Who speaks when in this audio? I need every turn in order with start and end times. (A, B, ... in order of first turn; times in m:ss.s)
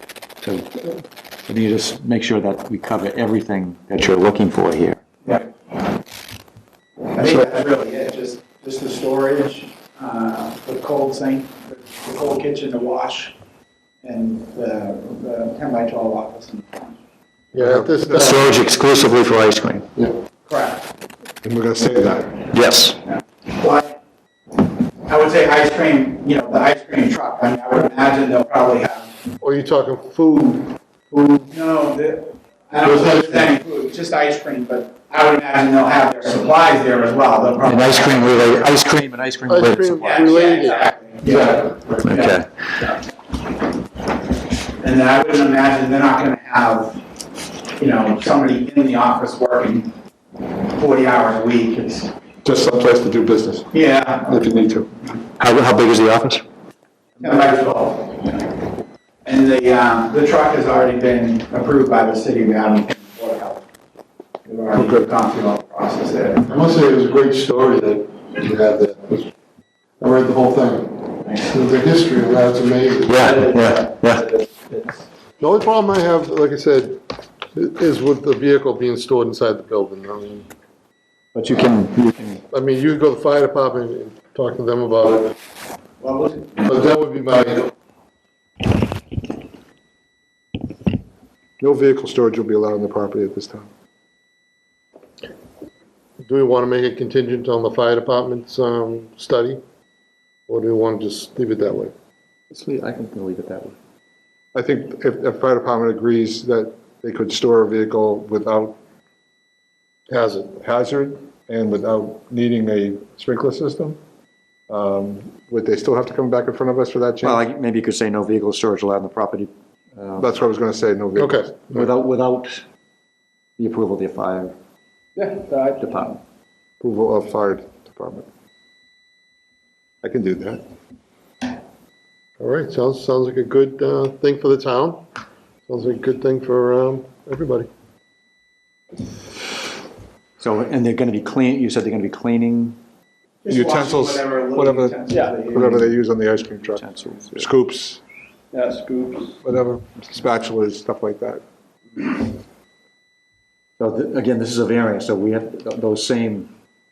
0:00.4-0:05.0 A
0:05.2-0:05.5 B
0:07.1-0:13.3 B
0:14.0-0:16.9 B
0:17.5-0:18.5 C
0:17.6-0:18.4 D
0:18.1-0:19.9 A
0:20.4-0:20.9 B
0:21.4-0:22.4 D
0:22.5-0:23.0 A
0:23.1-0:24.0 B
0:24.6-0:29.1 B
0:29.4-0:31.5 C
0:31.5-0:38.7 B
0:32.8-0:33.5 C
0:37.6-0:40.5 A
0:39.5-0:41.7 C
0:40.0-0:42.4 B
0:42.0-0:42.5 A
0:44.8-0:47.0 B
0:47.8-0:49.9 B
0:50.6-0:52.1 B
0:52.4-0:54.9 D
0:53.7-0:54.4 B
0:55.4-0:56.4 A
0:57.2-0:58.6 B
0:59.2-1:03.6 B
1:04.4-1:06.5 B
1:04.7-1:05.1 D
1:06.5-1:09.3 C
1:10.0-1:13.6 C
1:13.1-1:14.4 A
1:15.4-1:20.5 C
1:21.3-1:22.4 A
1:22.5-1:25.4 C
1:26.0-1:26.7 B
1:26.6-1:27.7 C
1:31.6-1:33.7 D
1:36.2-1:39.6 C
1:40.5-1:41.9 C
1:42.5-1:43.7 A
1:44.5-1:48.8 D
1:50.1-1:50.6 C
1:50.6-1:54.0 D
1:54.7-1:57.4 D
1:57.2-2:00.3 A
2:00.2-2:01.5 D
2:01.2-2:01.9 C
2:01.7-2:02.6 A
2:03.6-2:04.5 A
2:05.2-2:06.0 E
2:05.8-2:06.2 A
2:06.8-2:08.3 D
2:10.0-2:10.6 D
2:12.4-2:15.1 C
2:15.7-2:17.7 C
2:20.4-2:22.8 A
2:23.4-2:25.8 B
2:23.5-2:26.8 D
2:25.1-2:25.5 E
2:25.5-2:26.1 A
2:26.6-2:27.5 A
2:27.4-2:28.0 D
2:28.5-2:29.4 E
2:29.4-2:31.4 D
2:33.8-2:36.5 A